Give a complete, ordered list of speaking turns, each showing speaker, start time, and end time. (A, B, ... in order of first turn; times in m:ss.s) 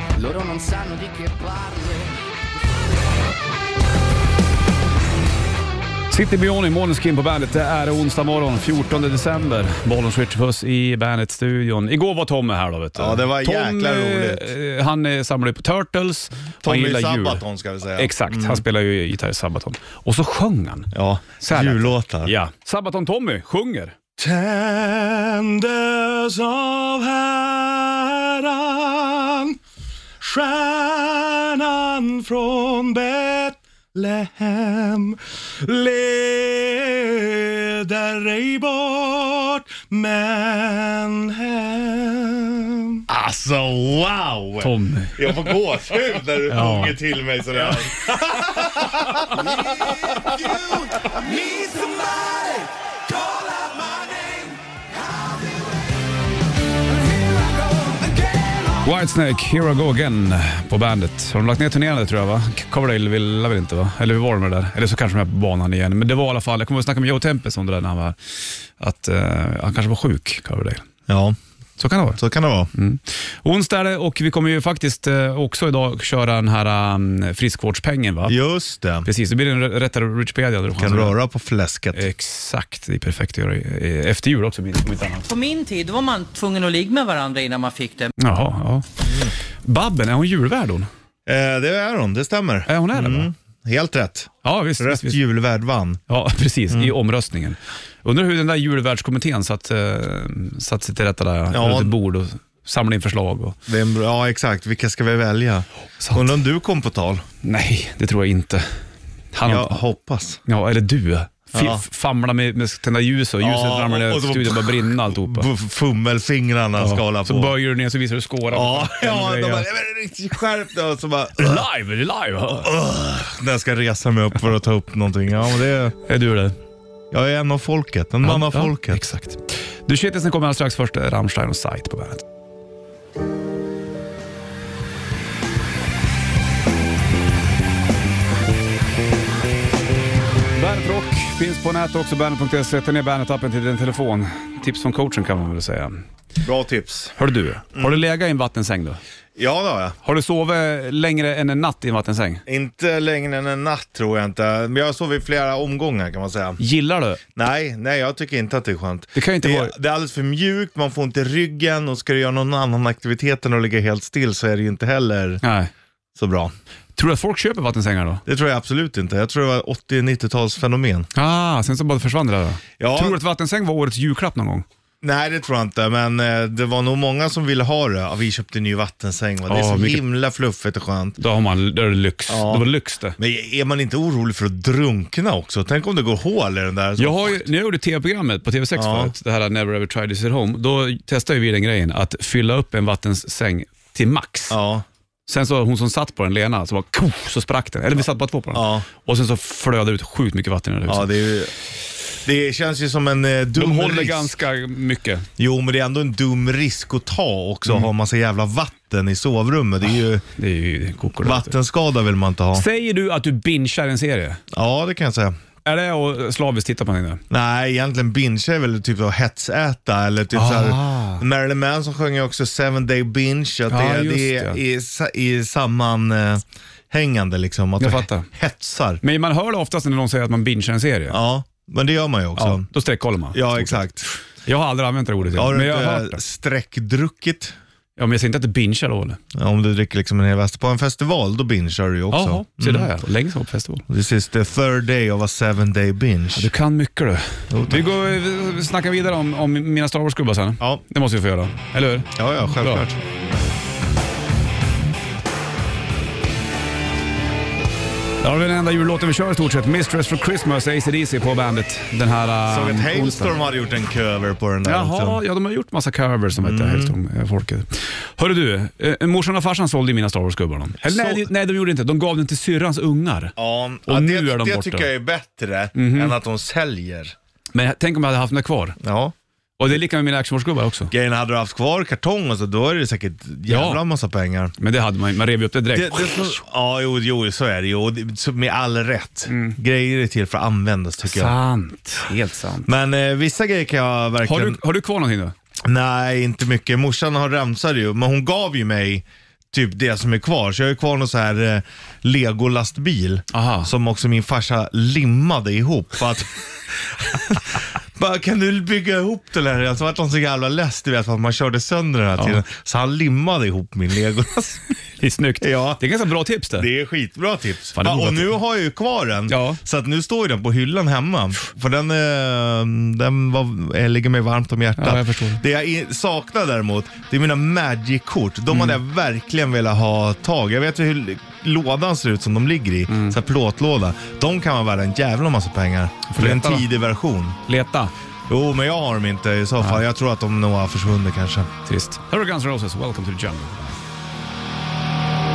0:00.2-0:01.3 A
0:06.1-0:17.4 B
0:12.9-0:14.5 C
0:16.6-0:18.6 C
0:18.0-0:24.0 B
0:20.9-0:22.3 C
0:24.2-0:29.6 C
0:30.2-0:51.9 C
0:44.6-0:45.6 B
0:46.3-0:47.0 B
0:49.0-0:49.5 B
0:51.3-0:52.6 A
0:53.2-0:54.1 A
0:58.8-1:08.2 B
1:08.8-1:10.9 B
1:11.1-1:11.4 C
1:11.8-1:12.2 B
1:12.2-1:12.7 C
1:12.7-1:18.4 B
1:18.2-1:19.1 C
1:19.0-1:21.1 B
1:20.7-1:22.0 C
1:21.9-1:25.3 B
1:25.3-1:28.1 D
1:28.2-1:28.9 B
1:29.0-1:29.3 C
1:29.6-1:30.9 B
1:31.2-1:36.0 C
1:32.7-1:33.3 B
1:34.4-1:35.2 B
1:36.1-1:43.6 B
1:41.5-1:41.9 C
1:43.7-1:47.2 C
1:46.0-1:46.2 B
1:47.4-1:48.7 B
1:49.3-1:49.8 B
1:49.4-1:50.4 C
1:50.4-1:55.5 B
1:51.5-1:51.8 C
1:53.4-1:57.6 C
1:56.8-1:59.7 B
1:58.5-2:01.6 C
2:01.4-2:02.7 B
2:02.5-2:06.0 C
2:06.0-2:06.6 B
2:07.1-2:09.0 C
2:08.2-2:12.2 B
2:20.5-2:26.0 B
2:26.4-2:27.2 C
2:27.2-2:29.0 B
2:27.7-2:28.0 C
2:29.4-2:30.0 C
2:30.0-2:32.4 B
2:32.5-2:36.6 C
2:36.6-2:37.2 B
2:37.3-2:45.4 C
2:39.1-2:39.7 B
2:45.4-2:45.7 B
2:46.2-2:46.5 C
2:47.0-2:48.2 B
2:48.2-2:51.1 C
2:51.1-2:54.6 B
2:52.8-2:53.2 C
2:55.0-3:01.2 C
2:59.5-3:00.0 B
3:01.2-3:03.2 B
3:02.3-3:02.6 C
3:03.2-3:07.4 C
3:07.0-3:14.6 B
3:08.7-3:09.1 C
3:14.5-3:14.8 C
3:15.3-3:21.2 B
3:18.5-3:18.8 C
3:20.9-3:21.5 C
3:22.2-3:24.3 C
3:23.6-3:25.3 B
3:25.4-3:30.2 C
3:30.4-3:31.5 B
3:31.2-3:32.6 C
3:32.5-3:34.4 B
3:34.5-3:35.4 C
3:35.6-3:37.2 B
3:37.3-3:49.0 C
3:40.3-3:41.2 B
3:43.7-3:44.6 B
3:47.8-3:48.3 B
3:49.0-3:51.2 B
3:51.1-3:52.7 C
3:52.4-3:56.2 B
3:53.3-3:54.1 C
3:55.3-3:57.6 C
3:58.0-3:59.2 B
3:59.3-4:02.9 C
4:02.1-4:03.9 B
4:03.9-4:06.5 C
4:06.3-4:12.9 B
4:07.5-4:07.9 C
4:12.1-4:13.0 C
4:18.2-4:23.3 B
4:22.5-4:25.2 C
4:24.6-4:33.3 B
4:26.4-4:27.0 C
4:30.8-4:31.3 C
4:33.4-4:37.2 C
4:33.9-4:34.9 B
4:35.7-4:36.2 B
4:37.5-4:38.8 B
4:38.8-4:39.1 C
4:39.6-4:40.9 B
4:40.9-4:44.5 C
4:43.5-4:43.8 B
4:44.6-4:46.4 B
4:45.7-4:51.3 C
4:49.3-4:49.6 B
4:51.0-4:52.7 B
4:52.6-4:54.6 C
4:54.2-4:55.3 B
4:55.6-5:14.7 C
5:03.3-5:03.7 B
5:15.0-5:16.7 B
5:15.4-5:15.8 C
5:16.6-5:37.4 C
5:17.7-5:18.3 B
5:19.3-5:19.6 B
5:24.8-5:25.4 B
5:28.5-5:28.8 B
5:32.9-5:33.2 B
5:36.1-5:36.7 B
5:37.4-5:37.9 B
5:38.3-5:41.5 C
5:41.6-5:43.8 B